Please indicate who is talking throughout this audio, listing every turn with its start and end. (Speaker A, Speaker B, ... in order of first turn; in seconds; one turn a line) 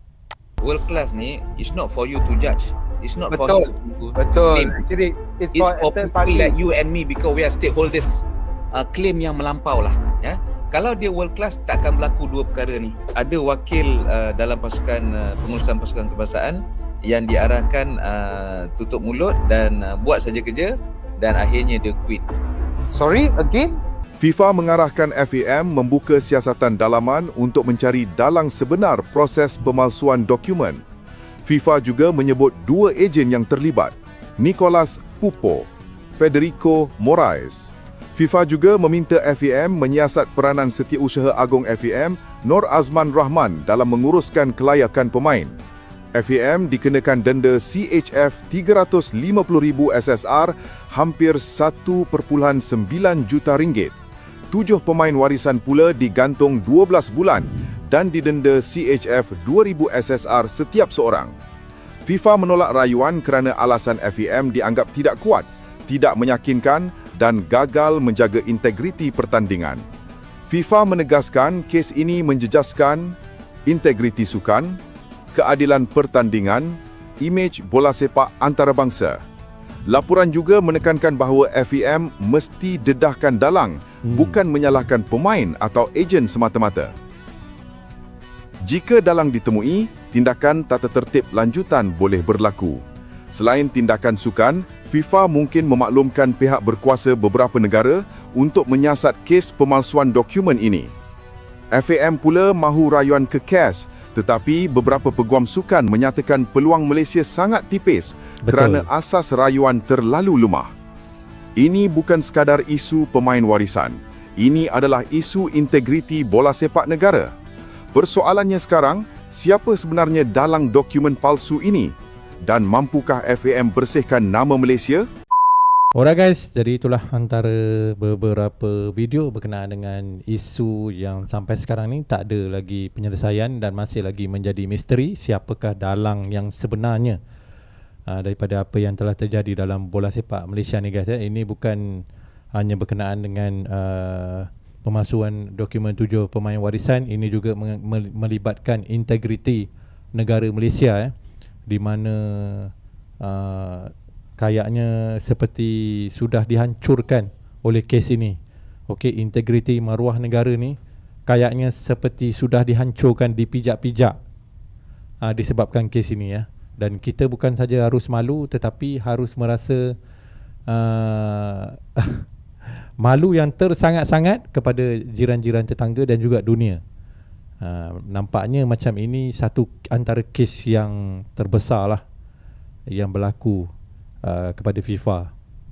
Speaker A: 0.6-4.8
Speaker B: 3.3-6.6
Speaker A: 5.5-22.2
Speaker B: 22.9-23.8
Speaker C: 24.2-30.8
Speaker C: 31.5-35.7
Speaker C: 36.2-45.6
Speaker C: 46.2-54.0
Speaker C: 54.5-61.3
Speaker C: 62.1-69.8
Speaker C: 70.5-73.1
Speaker C: 73.7-74.8
Speaker C: 75.3-79.2
Speaker C: 79.9-86.9
Speaker D: 84.1-84.4
Speaker C: 88.7-92.8
Speaker C: 93.3-100.9
Speaker C: 101.7-110.7
Speaker D: 108.5-108.9
Speaker C: 111.6-117.3
Speaker C: 117.9-121.9
Speaker C: 122.5-125.1
Speaker D: 126.0-137.2
Speaker D: 138.1-142.0
Speaker D: 142.6-151.1
Speaker D: 151.7-158.4
Speaker D: 158.9-164.2
Speaker D: 165.2-169.9
Speaker D: 170.7-172.2
Speaker D: 173.0-176.8
Speaker D: 177.6-182.0
Speaker D: 182.9-183.7
Speaker D: 184.2-185.3